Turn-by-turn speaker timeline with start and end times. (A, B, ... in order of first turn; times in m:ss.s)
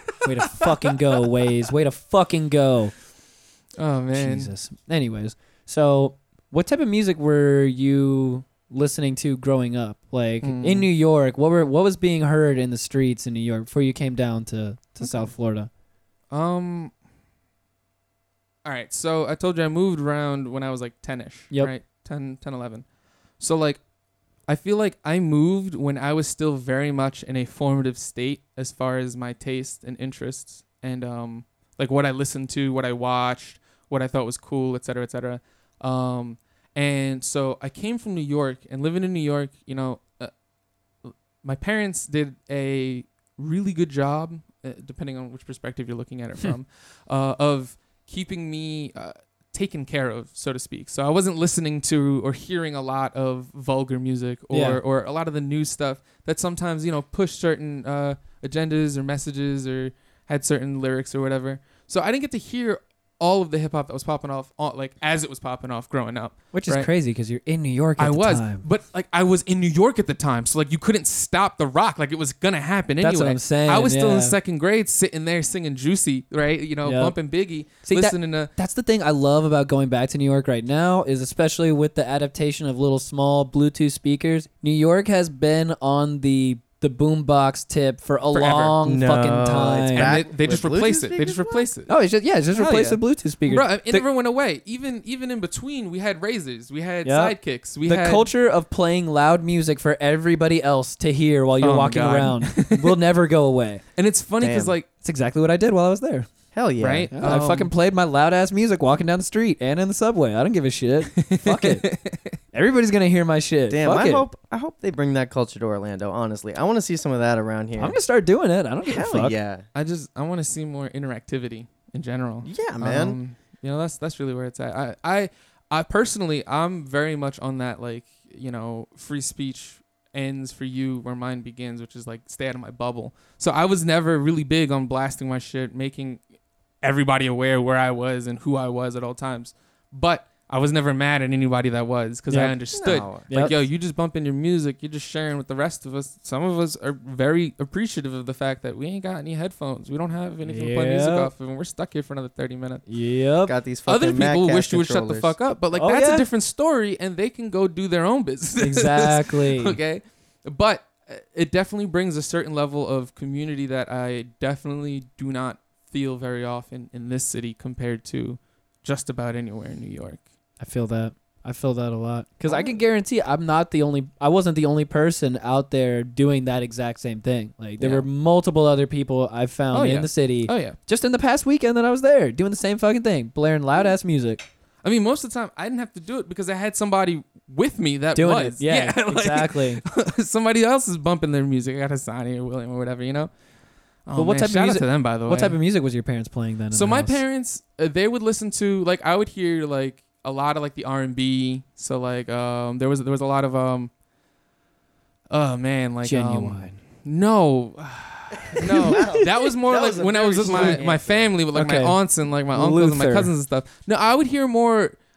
0:00.2-0:03.0 A
0:03.8-0:04.5 B
0:04.1-0:15.7 A
0:10.4-0:10.9 B
0:15.0-0:15.3 B
0:16.3-0:16.9 B
0:18.6-0:22.8 B
0:23.4-0:23.8 B
0:24.5-0:40.3 B
0:41.0-1:06.9 B
0:54.5-0:54.8 A
1:06.5-1:08.6 A
1:08.0-1:18.5 B
1:13.0-1:14.4 A
1:16.8-1:17.2 A
1:17.8-1:30.2 A
1:28.3-1:28.8 B
1:28.8-1:31.7 C
1:29.9-1:31.9 B
1:31.9-1:34.1 A
1:32.5-1:38.3 B
1:37.0-1:43.8 A
1:41.6-1:43.0 B
1:44.0-1:44.9 B
1:44.4-1:44.8 C
1:45.0-1:46.3 A
1:46.5-1:47.4 C
1:46.8-1:47.7 B
1:47.2-1:51.9 A
1:51.2-1:52.4 B
1:52.5-1:54.3 A
1:53.7-1:58.0 C
1:57.8-1:59.4 A
1:58.8-1:59.6 C
1:59.8-2:16.2 B
2:02.4-2:03.2 C
2:16.8-2:32.8 B
2:22.3-2:22.6 A
2:22.7-2:23.5 C
2:23.3-2:23.6 A
2:30.4-2:31.3 A
2:32.9-2:33.6 A
2:33.5-2:35.3 C
2:33.9-2:50.2 B
2:35.7-2:36.3 A
2:38.6-2:39.8 A
2:50.6-3:04.5 A
2:52.5-2:52.8 B
2:57.8-2:58.1 B
2:59.7-3:00.8 B
3:04.8-3:13.3 B
3:08.2-3:09.8 A
3:14.1-3:15.6 B
3:14.1-3:17.2 A
3:16.7-3:23.9 B
3:25.3-3:35.0 B
3:26.0-3:26.8 A
3:28.6-3:31.4 C
3:28.8-3:29.3 A
3:30.5-3:30.8 A
3:31.5-3:33.3 A